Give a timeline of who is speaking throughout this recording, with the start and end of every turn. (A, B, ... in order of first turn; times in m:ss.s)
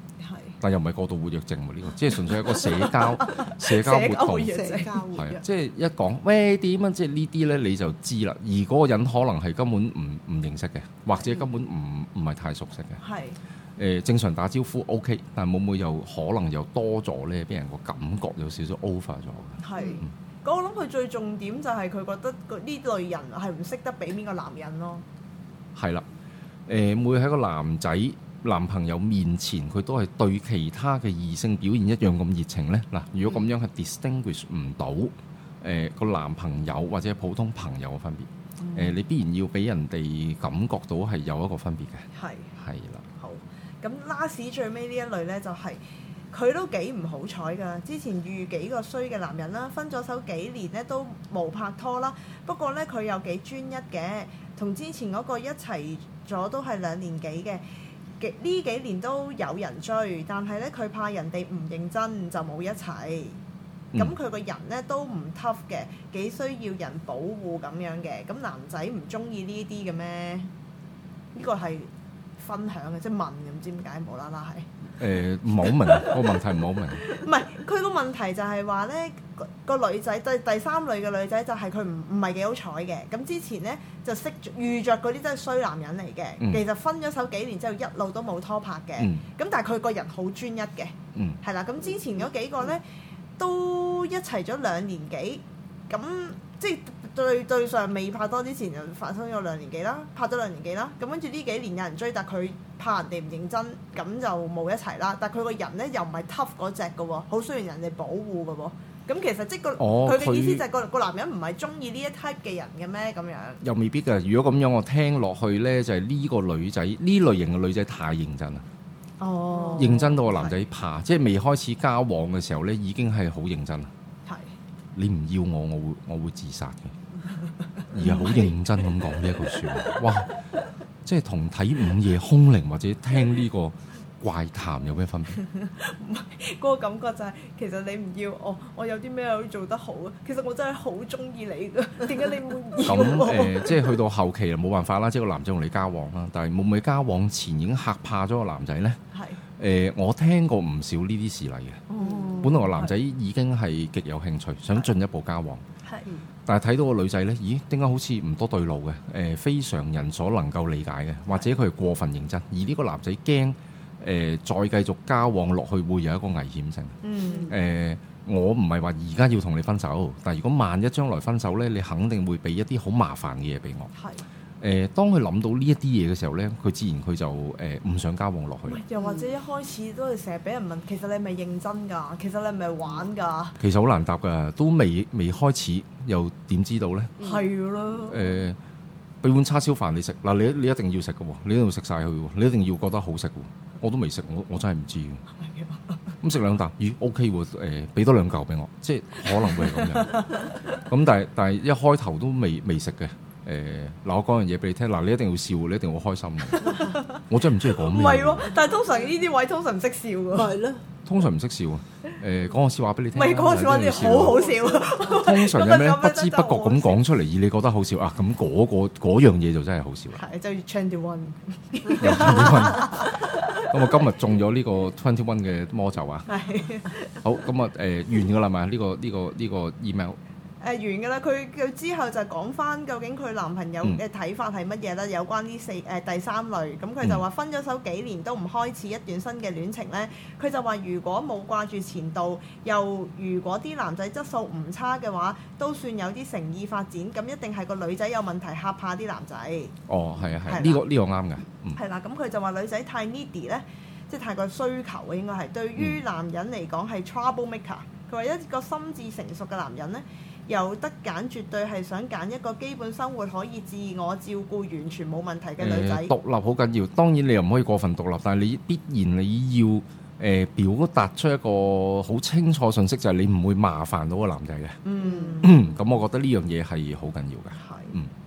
0:00.2-0:00.6 A
0:00.6-0:04.6 B
0:02.6-0:05.0 A
0:04.4-0:05.4 C
0:05.1-0:13.0 B
0:13.0-0:13.4 A
0:13.8-0:20.1 B
0:19.6-0:25.0 A
0:25.8-0:26.0 B
0:26.7-0:43.0 B
0:38.6-0:39.0 A
0:42.2-0:42.5 A
0:43.2-0:45.8 A
0:46.3-0:57.6 A
0:58.2-1:03.4 A
1:04.0-1:10.5 A
1:11.3-1:14.7 A
1:15.0-1:17.1 B
1:15.6-1:16.3 A
1:17.0-1:32.8 A
1:33.4-1:53.6 A
1:49.8-1:50.6 B
1:53.6-1:58.6 B
1:59.2-2:00.6 A
1:59.7-2:03.9 B
2:05.0-2:07.0 B
2:07.8-2:10.0 A
2:07.9-2:10.4 B
2:11.0-2:15.4 B
2:15.4-2:24.0 A
2:22.8-2:29.0 B
2:29.1-2:29.4 A
2:29.6-2:31.8 B
2:31.9-2:33.0 A
2:32.0-2:32.5 C
2:32.4-2:35.6 B
2:36.5-2:53.9 B
2:47.0-2:47.6 A
2:54.0-2:54.2 A
2:54.6-2:58.8 B
2:58.7-3:03.6 A
2:59.0-2:59.3 C
3:03.6-3:07.2 B
3:07.2-3:07.5 C
3:07.2-3:08.4 A
3:08.1-3:08.6 B
3:09.2-3:15.2 B
3:15.4-3:16.0 A
3:16.2-3:28.5 B
3:19.4-3:20.8 A
3:26.6-3:27.3 A
3:26.6-3:27.0 C
3:27.8-3:30.6 A
3:28.6-3:29.1 C
3:30.3-3:30.8 C
3:31.0-3:34.5 B
3:33.1-3:37.0 A
3:34.0-3:35.0 C
3:35.0-3:40.2 B
3:40.2-3:43.7 A
3:41.9-3:46.3 B
3:46.3-3:47.1 A
3:47.2-3:50.2 B
3:50.6-4:09.8 A
4:09.9-4:11.8 B
4:10.4-4:10.8 A
4:11.8-4:26.1 A
4:25.6-4:34.8 B
4:34.8-4:35.8 A
4:35.0-4:35.4 C
4:35.4-4:38.1 B
4:37.6-4:38.0 A